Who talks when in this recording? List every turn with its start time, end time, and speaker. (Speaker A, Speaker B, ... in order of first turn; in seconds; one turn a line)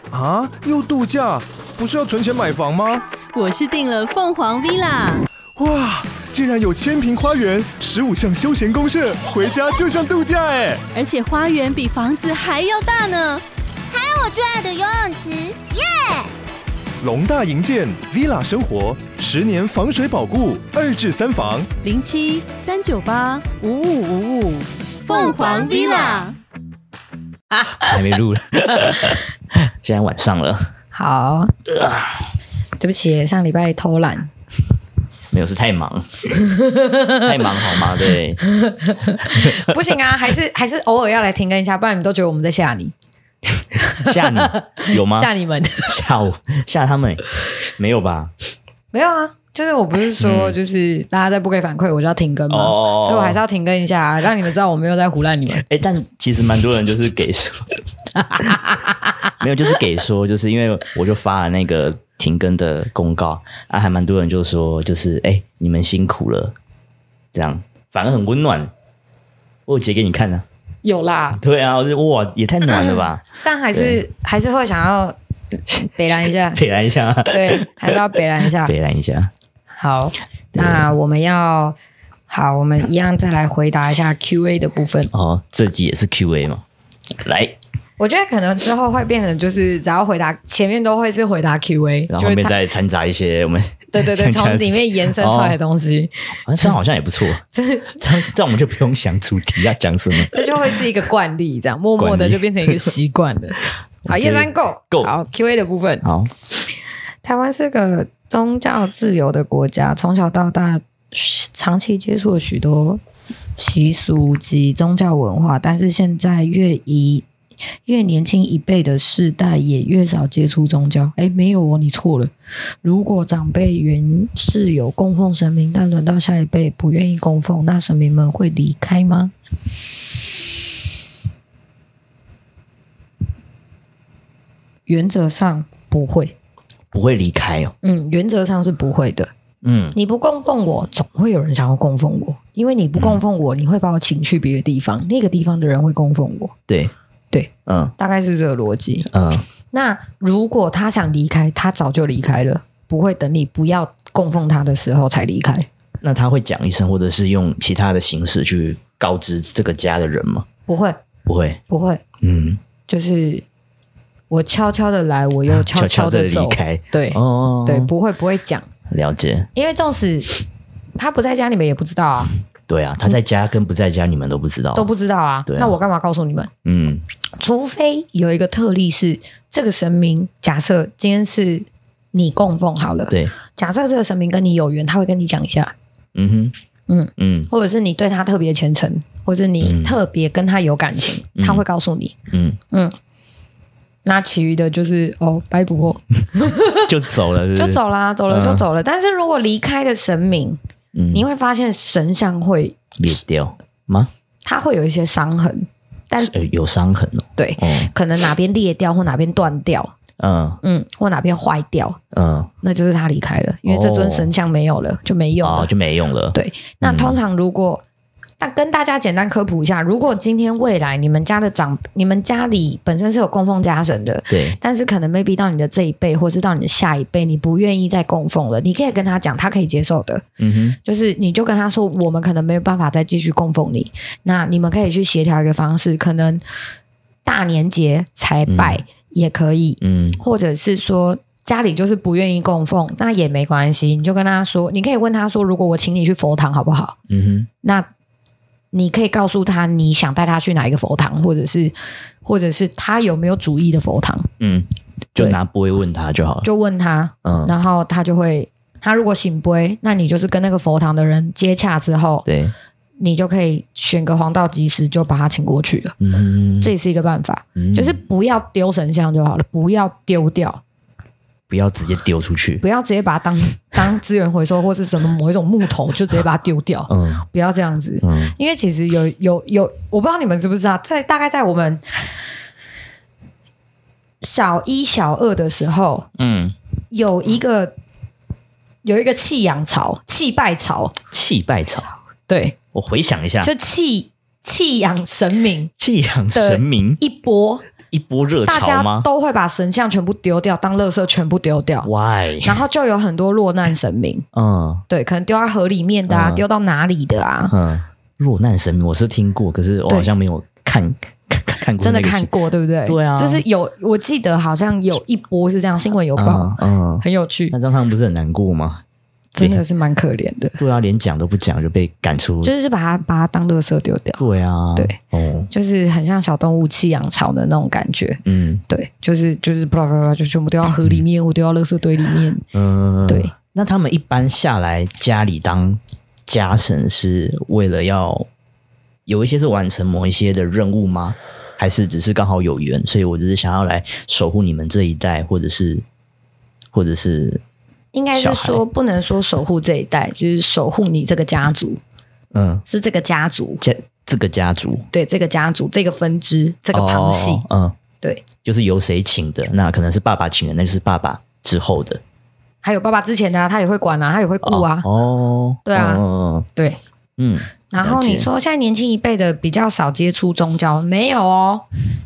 Speaker A: 0.1-3.0
Speaker B: 3.3-5.2
Speaker A: 5.5-10.8
Speaker B: 10.9-13.4
Speaker C: 13.9-16.3
Speaker A: 17.0-21.7
Speaker B: 21.8-26.4
Speaker C: 25.1-26.3
Speaker D: 27.8-30.7
Speaker E: 30.9-31.6
Speaker E: 32.8-34.3
Speaker D: 35.3-38.4
Speaker E: 38.6-42.9
Speaker D: 39.2-39.8
Speaker E: 43.8-46.0
Speaker D: 44.0-45.3
Speaker D: 45.8-48.3
Speaker E: 48.9-55.6
Speaker D: 50.2-50.6
Speaker D: 52.5-53.4
Speaker D: 55.6-57.8
Speaker E: 58.4-58.7
Speaker D: 59.4-66.5
Speaker D: 67.3-68.7
Speaker D: 69.7-70.4
Speaker E: 70.8-71.4
Speaker D: 71.4-74.0
Speaker E: 72.7-75.2
Speaker E: 75.7-76.6
Speaker D: 76.4-79.3
Speaker E: 77.3-78.7
Speaker E: 79.7-81.8
Speaker D: 80.5-80.9
Speaker E: 82.3-85.1
Speaker D: 85.1-86.6
Speaker D: 87.2-87.6
Speaker E: 88.0-92.6
Speaker D: 92.1-95.6
Speaker E: 93.9-96.6
Speaker D: 96.5-97.4
Speaker E: 97.5-98.2
Speaker D: 98.0-100.8
Speaker E: 100.2-106.0
Speaker D: 102.0-102.9
Speaker D: 104.0-105.1
Speaker D: 106.0-106.3
Speaker E: 107.2-113.0
Speaker E: 113.6-117.2
Speaker E: 117.8-122.3
Speaker E: 122.8-129.3
Speaker E: 134.9-136.3
Speaker D: 136.9-137.7
Speaker E: 137.8-139.3
Speaker D: 139.6-140.0
Speaker E: 139.9-146.5
Speaker D: 143.0-143.2
Speaker E: 147.3-149.1
Speaker D: 147.7-147.9
Speaker D: 149.1-149.4
Speaker E: 149.7-155.7
Speaker D: 156.0-160.5
Speaker E: 160.7-161.0
Speaker D: 161.2-161.6
Speaker E: 161.7-162.0
Speaker D: 162.2-162.6
Speaker E: 162.9-163.4
Speaker E: 164.3-168.7
Speaker D: 165.5-167.9
Speaker D: 168.9-169.5
Speaker E: 169.5-170.4
Speaker E: 170.9-172.3
Speaker D: 172.7-174.9
Speaker E: 174.7-176.5
Speaker D: 175.5-175.7
Speaker D: 176.6-177.0
Speaker E: 177.4-185.7
Speaker D: 186.1-186.5
Speaker E: 186.9-192.2
Speaker D: 187.2-187.5
Speaker D: 189.6-190.0
Speaker D: 191.3-191.6
Speaker D: 192.3-192.6
Speaker E: 194.0-196.9
Speaker D: 196.7-198.6
Speaker E: 197.5-200.6
Speaker D: 200.9-201.2
Speaker E: 201.1-202.8
Speaker D: 203.0-204.1
Speaker E: 204.4-206.3
Speaker D: 206.2-207.9
Speaker E: 207.4-209.9
Speaker D: 210.2-210.6
Speaker E: 210.6-212.0
Speaker D: 212.1-212.5
Speaker E: 212.6-215.7
Speaker D: 213.7-214.3
Speaker D: 215.4-217.2
Speaker E: 216.3-217.8
Speaker E: 218.4-230.2
Speaker D: 224.3-224.6
Speaker D: 230.4-230.8
Speaker E: 230.8-236.4
Speaker E: 237.2-247.0
Speaker D: 238.5-238.8
Speaker D: 239.8-240.2
Speaker D: 247.1-247.5
Speaker E: 248.7-254.3
Speaker D: 254.4-256.5
Speaker E: 256.4-262.2
Speaker D: 257.2-257.5
Speaker D: 262.2-262.5
Speaker E: 263.0-265.9
Speaker D: 266.0-266.7
Speaker E: 266.6-270.6
Speaker D: 267.6-268.0
Speaker D: 271.5-272.6
Speaker E: 272.6-282.2
Speaker D: 276.9-277.2
Speaker D: 278.0-278.3
Speaker E: 284.2-286.1
Speaker D: 286.2-286.6
Speaker E: 286.9-287.7
Speaker E: 288.8-290.9
Speaker D: 291.1-291.9
Speaker E: 292.3-292.6
Speaker D: 292.7-293.5
Speaker E: 293.4-295.7
Speaker D: 295.8-297.0
Speaker E: 296.3-297.7
Speaker D: 297.9-299.1
Speaker E: 298.4-301.9
Speaker D: 301.8-302.6
Speaker E: 302.4-304.2
Speaker D: 304.3-304.8
Speaker E: 304.9-307.5
Speaker D: 306.1-306.4
Speaker D: 307.5-312.3
Speaker E: 311.8-317.5
Speaker D: 312.9-313.4
Speaker D: 316.1-318.8
Speaker E: 319.3-320.6
Speaker D: 320.6-322.5
Speaker E: 322.4-324.2
Speaker D: 324.2-325.5
Speaker E: 325.5-332.4
Speaker D: 328.2-328.6
Speaker D: 332.5-338.3
Speaker E: 333.1-333.3
Speaker D: 339.1-345.8
Speaker D: 346.7-347.4
Speaker E: 347.9-351.8
Speaker D: 348.1-348.6
Speaker D: 352.3-352.6
Speaker E: 352.7-353.6
Speaker D: 353.6-354.9
Speaker E: 354.9-357.4
Speaker D: 356.7-357.8
Speaker D: 358.4-362.0
Speaker E: 362.6-364.9
Speaker D: 364.4-366.5
Speaker E: 365.6-366.0
Speaker D: 367.2-368.3
Speaker E: 367.7-371.6